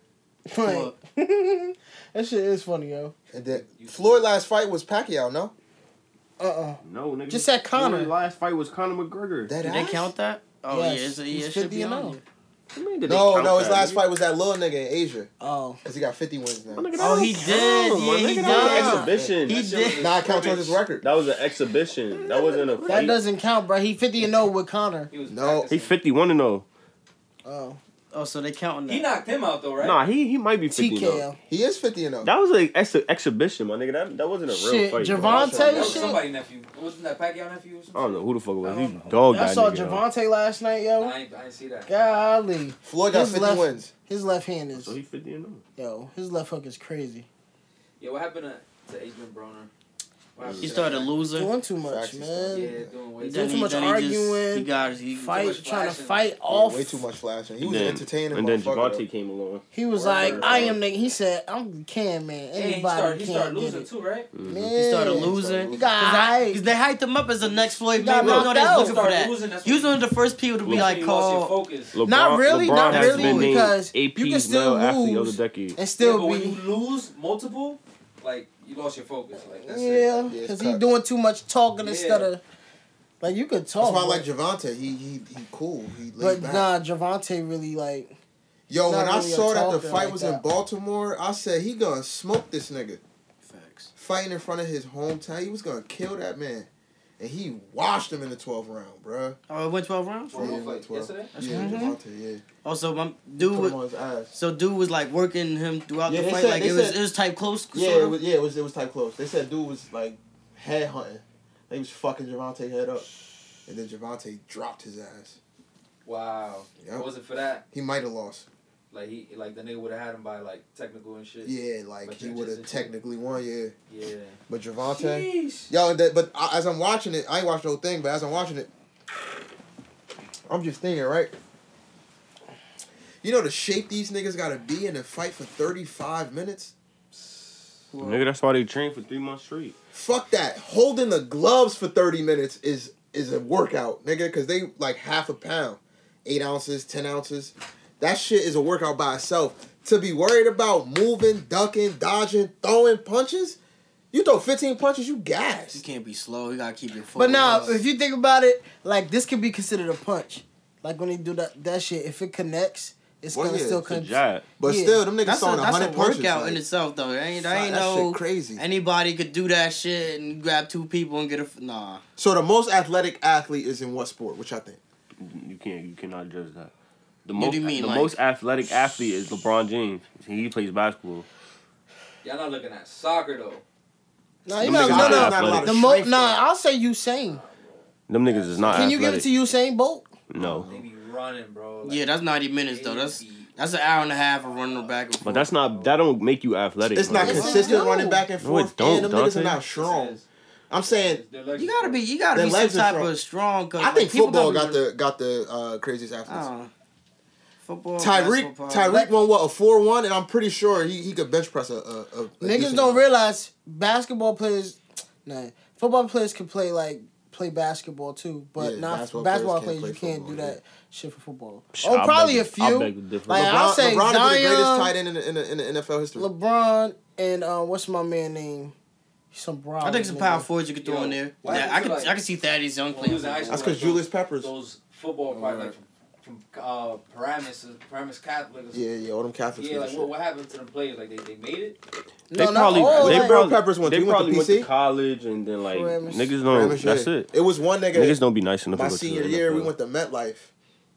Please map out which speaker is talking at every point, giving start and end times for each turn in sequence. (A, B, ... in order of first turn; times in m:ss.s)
0:00.5-0:03.1 A
0:00.6-0:00.9 B
0:03.3-0:05.5 C
0:03.4-0:04.3 D
0:06.4-0:08.1 A
0:06.8-0:09.5 E
0:09.4-0:10.1 C
0:09.6-0:12.2 B
0:10.7-0:12.2 A
0:12.7-0:14.0 E
0:13.0-0:15.3 C
0:15.4-0:15.8 A
0:15.8-0:17.1 C
0:16.7-0:19.6 E
0:17.0-0:20.1 B
0:18.4-0:19.4 C
0:18.4-0:19.1 A
0:19.5-0:20.8 D
0:20.0-0:21.0 C
0:21.0-0:23.2 E
0:22.8-0:25.1 A
0:25.1-0:25.9 D
0:25.3-0:25.7 C
0:25.7-0:26.6 E
0:27.4-0:27.8 A
0:28.1-0:29.1 B
0:28.8-0:30.0 D
0:29.8-0:31.2 E
0:30.7-0:31.4 A
0:31.5-0:32.3 C
0:32.2-0:35.5 E
0:34.5-0:36.2 A
0:35.2-0:36.1 C
0:35.2-0:39.0 D
0:37.9-0:40.0 E
0:39.2-0:41.2 A
0:41.0-0:41.9 D
0:41.9-0:44.9 A
0:42.8-0:43.9 C
0:44.7-0:45.6 E
0:45.8-0:47.3 A
0:48.0-0:49.7 D
0:50.4-0:51.1 D
0:50.4-0:50.7 E
0:50.6-0:51.5 B
0:51.3-0:52.8 A
0:51.8-0:52.9 C
0:52.5-0:53.8 D
0:53.2-0:55.5 B
0:53.3-0:57.0 A
0:55.3-0:56.4 D
0:56.5-0:59.0 C
0:57.6-1:00.8 E
0:59.7-1:03.9 A
1:00.0-1:00.8 C
1:00.2-1:00.7 D
1:02.5-1:04.3 D
1:04.3-1:04.7 E
1:04.4-1:06.6 A
1:04.7-1:11.6 B
1:05.1-1:06.0 C
1:07.4-1:10.0 D
1:08.0-1:09.0 A
1:10.6-1:10.9 E
1:10.6-1:12.0 D
1:11.9-1:15.8 E
1:12.0-1:16.6 A
1:12.8-1:13.6 B
1:16.0-1:20.3 D
1:19.5-1:22.4 A
1:20.3-1:20.8 C
1:21.8-1:22.3 D
1:23.2-1:24.2 A
1:23.8-1:26.7 C
1:26.2-1:28.2 A
1:28.7-1:33.0 C
1:28.8-1:30.4 A
1:33.4-1:33.9 B
1:34.0-1:36.7 C
1:37.2-1:39.4 C
1:39.5-1:40.6 B
1:40.3-1:41.4 D
1:40.3-1:42.4 C
1:41.4-1:41.9 B
1:41.4-1:41.9 A
1:42.6-1:43.8 B
1:43.4-1:44.3 C
1:44.3-1:48.2 B
1:46.0-1:47.0 C
1:47.7-1:53.1 C
1:53.6-1:55.4 C
1:56.0-1:57.6 D
1:56.8-1:57.1 C
1:57.7-1:58.5 C
1:58.9-2:03.0 D
2:01.4-2:03.7 C
2:03.9-2:04.4 D
2:04.5-2:08.7 C
2:05.0-2:05.7 D
2:10.5-2:11.3 C
2:13.2-2:16.7 C
2:17.9-2:18.2 B
2:18.0-2:19.8 E
2:19.9-2:33.6 C
2:34.1-2:35.8 C
2:35.7-2:37.8 B
2:37.2-2:45.0 A
2:43.3-2:43.9 C
2:43.9-2:44.4 E
2:44.6-2:46.6 C
2:45.2-2:52.0 B
2:47.4-2:48.6 C
2:52.2-2:54.8 C
2:55.2-2:56.7 E
2:57.2-3:01.2 E
2:57.3-2:58.2 B
3:02.2-3:03.6 D
3:04.4-3:07.4 A
3:04.6-3:05.7 E
3:04.6-3:06.4 C
3:07.2-3:08.7 D
3:08.1-3:09.3 E
3:08.7-3:10.1 A
3:10.3-3:10.7 E
3:10.4-3:10.8 C
3:10.6-3:13.5 D
3:11.8-3:15.5 B
3:15.2-3:17.6 E
3:15.6-3:16.0 D
3:16.9-3:20.2 C
3:17.2-3:18.3 A
3:18.4-3:19.6 E
3:19.6-3:20.3 D
3:20.7-3:21.2 C
3:20.8-3:22.0 D
3:21.5-3:24.8 B
3:22.3-3:23.1 C
3:23.8-3:26.5 C
3:26.3-3:26.7 B
3:27.6-3:29.1 B
3:28.0-3:33.0 C
3:32.4-3:44.9 A
3:38.6-3:40.6 C
3:41.7-3:43.5 E
3:43.3-3:46.3 C
3:46.2-3:48.7 A
3:49.3-3:50.5 A
3:49.8-3:53.7 B
3:50.8-3:52.2 D
3:52.9-3:58.8 D
3:53.5-3:54.5 C
3:55.3-3:55.7 C
3:58.7-4:00.1 C
3:59.5-4:01.8 D
4:02.3-4:03.4 A
4:02.3-4:07.3 E
4:02.9-4:04.7 C
4:05.7-4:06.3 A
4:06.5-4:08.2 C
4:07.9-4:09.7 E
4:08.7-4:10.5 C